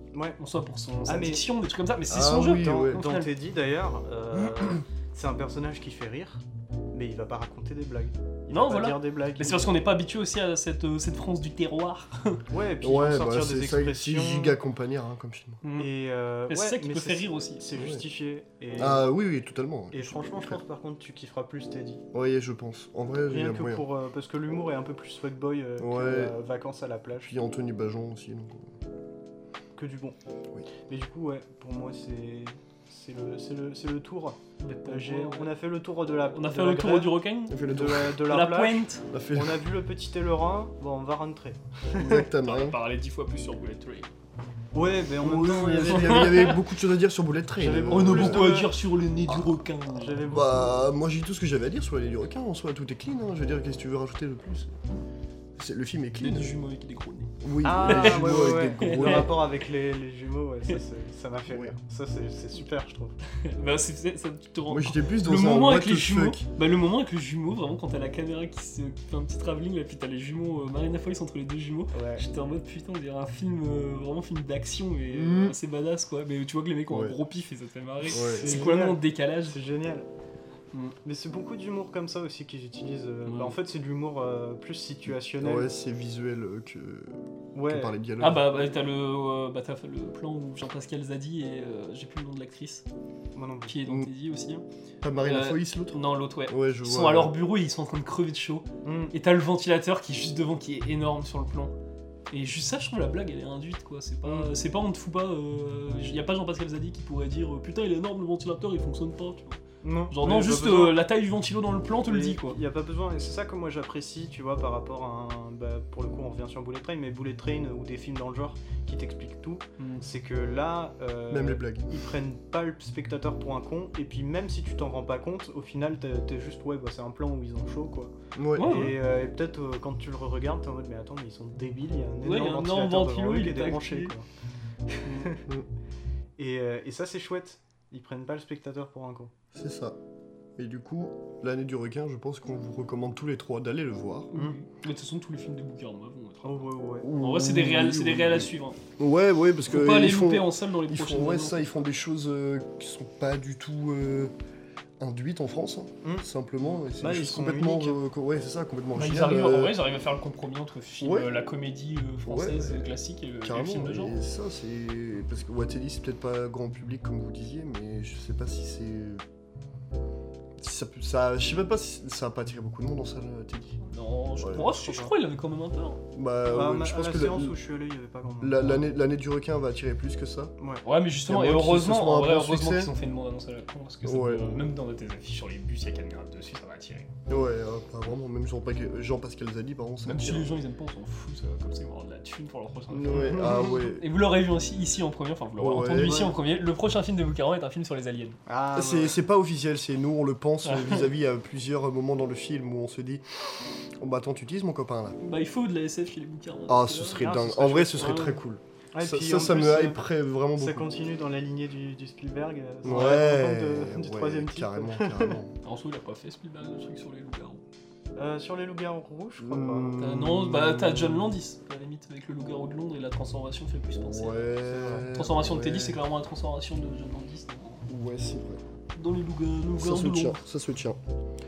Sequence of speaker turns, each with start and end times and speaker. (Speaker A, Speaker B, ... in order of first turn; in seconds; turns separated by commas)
Speaker A: 0.1-0.4, Speaker B: 0.4-3.3, Speaker A: 1.1-1.4, Speaker C: 2.1-3.0, Speaker A: 2.6-9.7, Speaker B: 8.5-12.4, Speaker A: 12.5-14.6, Speaker C: 12.8-15.6, Speaker B: 15.6-15.9, Speaker A: 15.8-19.0, Speaker B: 16.5-17.6, Speaker C: 17.8-18.0, Speaker C: 18.8-20.6, Speaker A: 19.9-22.0, Speaker C: 22.1-23.9, Speaker A: 23.3-27.4, Speaker C: 25.8-26.4, Speaker C: 27.3-28.7, Speaker A: 29.8-30.2, Speaker A: 30.7-42.3, Speaker B: 34.6-35.5, Speaker B: 36.3-39.1, Speaker C: 37.5-38.2, Speaker C: 39.1-39.6, Speaker C: 42.0-42.8, Speaker B: 42.4-44.1, Speaker A: 44.7-46.5, Speaker C: 45.2-48.6, Speaker B: 45.8-46.6, Speaker A: 47.6-48.7, Speaker B: 47.9-50.4, Speaker C: 49.3-49.6, Speaker A: 49.9-50.8, Speaker C: 50.2-54.7, Speaker C: 55.6-56.5, Speaker B: 56.2-59.4, Speaker C: 57.4-59.4, Speaker A: 57.6-63.2, Speaker B: 63.4-79.6, Speaker C: 64.7-66.5, Speaker A: 71.9-72.2, Speaker C: 75.1-75.6, Speaker C: 76.9-77.2, Speaker C: 78.1-78.6, Speaker A: 78.1-80.1, Speaker A: 81.0-85.7, Speaker B: 83.3-83.6, Speaker C: 85.3-88.5, Speaker A: 87.5-88.0, Speaker B: 88.2-92.8, Speaker A: 93.3-93.8, Speaker B: 93.7-94.6, Speaker C: 93.8-94.1, Speaker C: 95.0-97.3, Speaker B: 95.2-101.7, Speaker A: 98.8-99.1, Speaker B: 102.3-112.6, Speaker A: 104.2-104.5, Speaker A: 109.8-111.0, Speaker A: 112.0-134.3, Speaker B: 119.8-120.0, Speaker C: 121.3-121.9, Speaker C: 128.3-128.9, Speaker B: 128.6-129.0, Speaker B: 132.2-134.1, Speaker A: 134.9-135.4, Speaker B: 135.0-135.3, Speaker A: 136.4-139.3, Speaker C: 139.5-140.0, Speaker C: 140.6-144.3, Speaker B: 144.3-148.8, Speaker A: 146.4-147.1, Speaker C: 147.0-154.3, Speaker B: 149.7-151.7, Speaker C: 155.0-159.8, Speaker A: 156.8-158.0, Speaker B: 158.9-164.2, Speaker C: 161.0-161.4, Speaker C: 162.3-162.9, Speaker C: 163.4-169.2, Speaker C: 170.6-173.8, Speaker B: 173.9-176.0, Speaker C: 174.4-175.0, Speaker C: 176.1-177.6, Speaker A: 176.4-178.8, Speaker C: 178.4-180.5, Speaker A: 180.6-180.8, Speaker B: 180.8-187.1, Speaker C: 181.3-182.9, Speaker C: 184.0-184.6, Speaker C: 187.3-190.5, Speaker B: 190.1-198.4, Speaker C: 192.9-194.1, Speaker A: 193.1-193.7, Speaker C: 195.6-196.3, Speaker A: 196.0-196.3, Speaker A: 198.5-199.2, Speaker C: 198.8-205.2, Speaker B: 200.6-201.1, Speaker B: 205.2-207.3, Speaker C: 206.7-210.9, Speaker A: 207.2-208.3, Speaker B: 207.9-208.4, Speaker A: 208.9-210.0, Speaker A: 210.6-215.4, Speaker C: 212.8-215.6, Speaker B: 215.6-217.6, Speaker A: 218.2-219.9, Speaker C: 219.4-221.4, Speaker B: 220.0-224.5, Speaker C: 223.9-226.0, Speaker A: 224.6-225.1, Speaker B: 225.1-227.9, Speaker C: 227.9-228.6, Speaker B: 228.9-230.4, Speaker C: 229.8-231.0